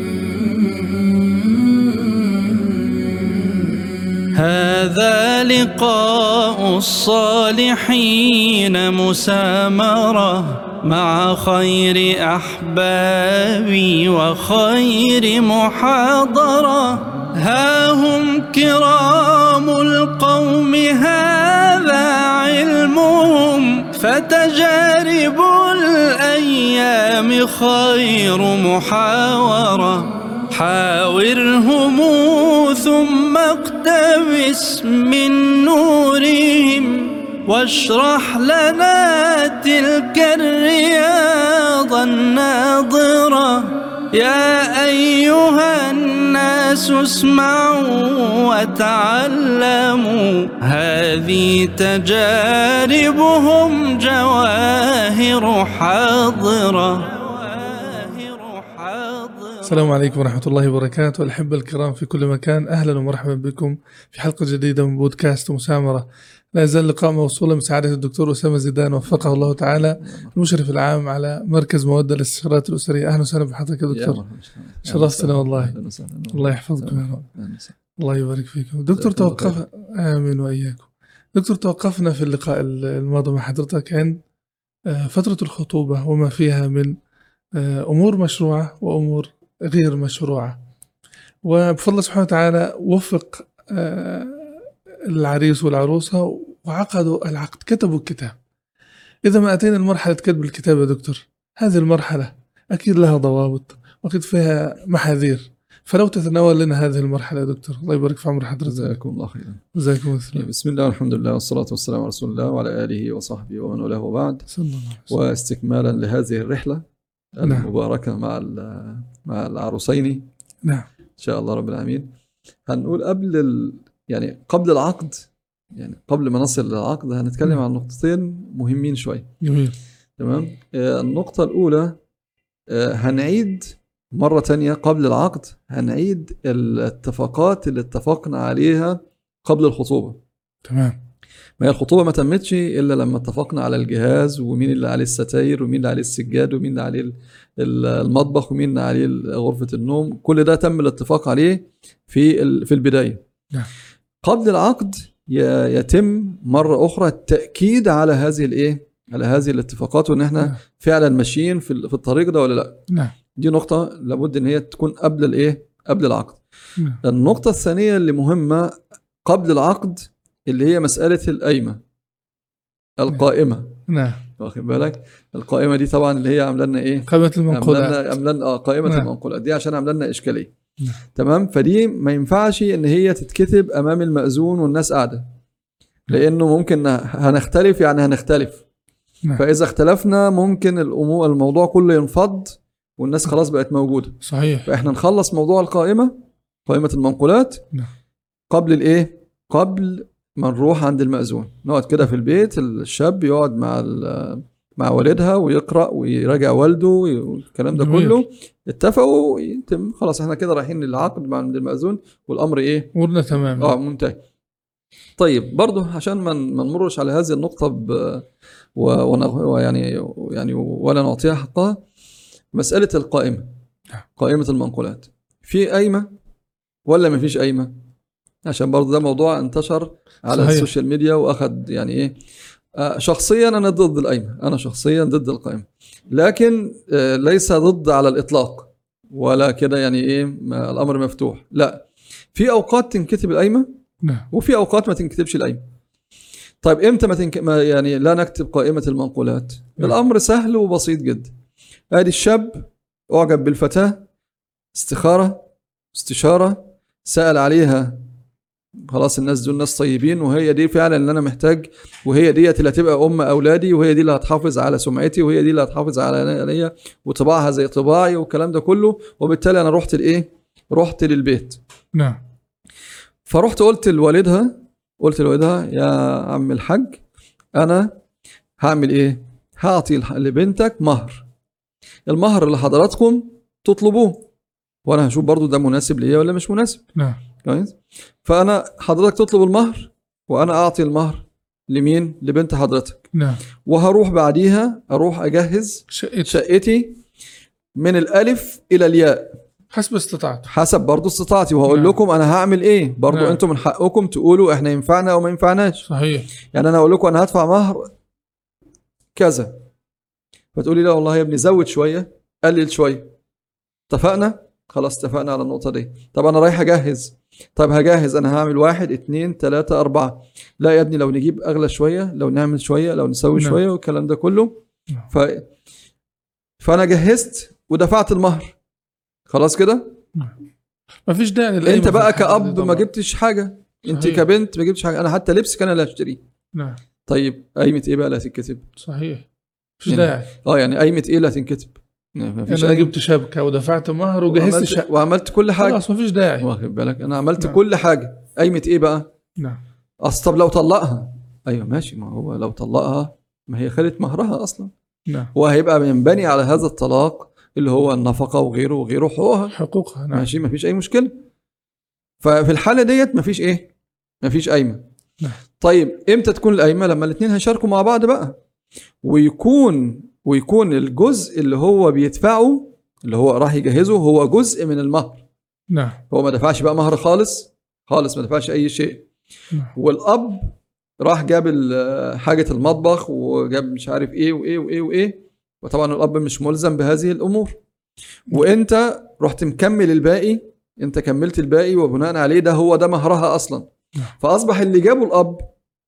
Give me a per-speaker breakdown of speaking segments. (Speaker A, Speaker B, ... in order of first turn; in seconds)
Speaker A: 4.3-60.0
Speaker B: 59.6-74.2, 74.9-75.7, 76.3-77.3, 78.0-84.2, 84.9-87.0, 87.5-90.6, 91.4-98.4, 99.2-109.0, 109.8-110.5, 114.5-115.1, 117.4-117.7, 129.4-129.8, 140.7-141.0, 162.9-163.1, 173.9-174.2, 177.1-178.1, 194.2-194.7, 207.8-208.2, 212.9-213.7, 230.3-230.7, 244.0-244.3, 271.9-272.2, 293.1-293.4, 295.9-296.4, 299.7-300.5, 301.7-302.0, 303.1-303.4, 305.9-306.3, 331.1-332.9, 333.9-334.3, 336.5-336.8, 338.8-339.2, 339.8-340.3, 342.5-344.9, 345.6-346.5, 355.1-355.3, 359.5-360.3, 375.7-376.0
Speaker C: 70.0-70.4, 73.9-77.8, 78.9-79.6, 108.7-109.6, 110.3-114.5, 115.1-116.8, 117.4-120.3, 121.2-122.1, 122.7-129.3, 130.2-132.0, 132.7-140.2, 141.6-153.2, 154.2-162.8, 163.4-166.4, 167.0-171.8, 173.0-173.8, 174.4-180.5, 181.2-185.2, 186.1-188.6, 189.4-196.2, 196.7-197.7, 198.5-212.9, 213.6-214.2, 215.2-221.8, 222.5-223.5, 224.2-226.1, 226.9-227.7, 228.5-232.2, 232.8-241.8, 242.3-243.7, 244.3-245.6, 246.6-251.3, 251.9-254.1, 254.8-258.0, 258.9-271.6, 273.3-277.0, 277.6-277.9, 278.6-281.2, 282.1-284.3, 284.9-286.8, 287.4-293.1, 293.6-297.0, 297.8-299.4, 300.5-305.8, 306.5-307.9, 309.1-309.6, 310.5-313.1, 313.9-325.5, 326.6-328.6, 329.3-330.0, 331.6-336.2, 337.1-338.7, 339.9-342.9, 344.3-345.8, 346.4-349.1, 350.0-354.7, 355.3-359.6, 360.1-361.1, 362.2-363.7, 364.2-364.8, 365.6-368.4, 369.0-375.2, 376.1-379.1, 379.8-387.6, 388.3-393.7, 394.2-395.5